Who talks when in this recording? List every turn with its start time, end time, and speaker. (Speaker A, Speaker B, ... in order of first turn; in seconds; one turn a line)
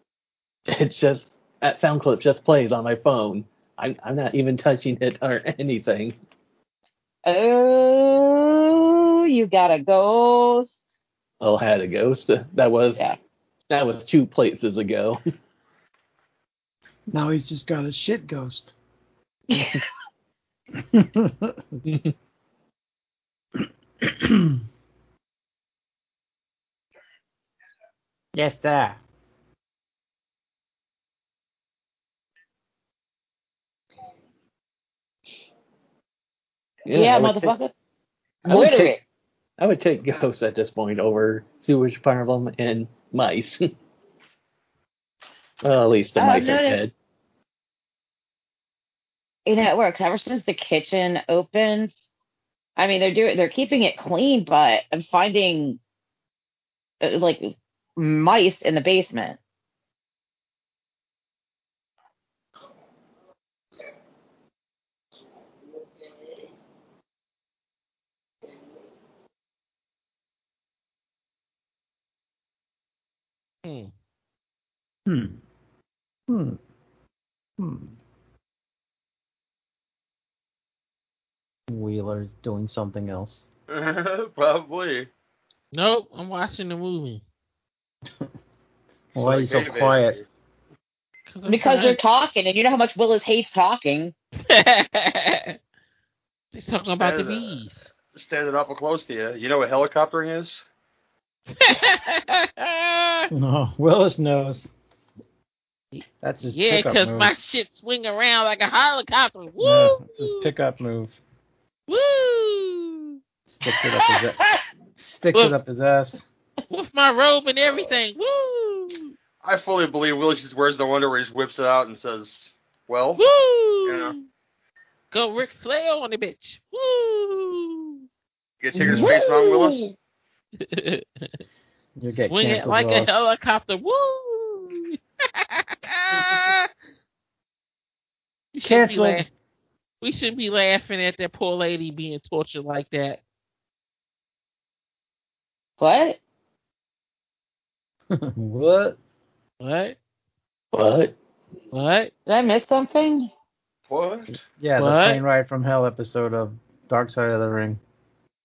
Speaker A: 0.7-6.1
Speaker B: 7.2-10.8
Speaker A: 11.4-13.0
Speaker A: 13.7-15.2
Speaker C: 17.1-18.7
Speaker B: 19.5-19.8
Speaker C: 20.8-21.6
Speaker A: 21.8-22.1
Speaker C: 24.0-24.6
Speaker C: 28.3-29.0
Speaker A: 36.9-37.5
Speaker B: 36.9-37.7
Speaker A: 38.5-38.9
Speaker B: 38.5-39.0
Speaker A: 39.6-43.7
Speaker A: 45.6-46.9
Speaker B: 46.1-46.8
Speaker B: 49.5-51.9
Speaker B: 52.8-55.8
Speaker B: 57.0-59.4
Speaker D: 73.6-73.9
Speaker C: 75.0-75.4
Speaker C: 76.3-76.6
Speaker C: 77.6-77.9
Speaker C: 81.7-83.5
Speaker E: 83.7-85.1
Speaker D: 85.7-87.2
Speaker C: 89.1-90.2
Speaker E: 89.1-90.2
Speaker D: 91.3-92.0
Speaker B: 91.5-94.1
Speaker D: 94.4-95.6
Speaker D: 96.5-97.9
Speaker E: 96.9-100.6
Speaker D: 101.5-103.3
Speaker C: 103.3-104.7
Speaker D: 105.9-110.5
Speaker C: 106.2-107.3
Speaker C: 109.6-111.2
Speaker D: 111.9-113.2
Speaker C: 113.5-114.4
Speaker C: 115.0-116.2
Speaker D: 116.7-119.1
Speaker E: 119.4-123.2
Speaker D: 123.2-124.2
Speaker E: 123.8-124.1
Speaker D: 125.1-128.0
Speaker E: 128.6-129.9
Speaker C: 128.8-129.1
Speaker D: 128.8-129.2
Speaker D: 130.6-131.2
Speaker C: 132.0-133.2
Speaker D: 132.2-136.7
Speaker D: 138.5-139.3
Speaker C: 138.6-139.2
Speaker D: 140.0-143.2
Speaker B: 145.8-146.2
Speaker C: 148.1-149.0
Speaker D: 149.6-149.9
Speaker A: 150.7-151.2
Speaker D: 151.7-152.1
Speaker B: 152.3-153.3
Speaker E: 153.9-154.4
Speaker C: 154.6-157.8
Speaker D: 154.8-155.2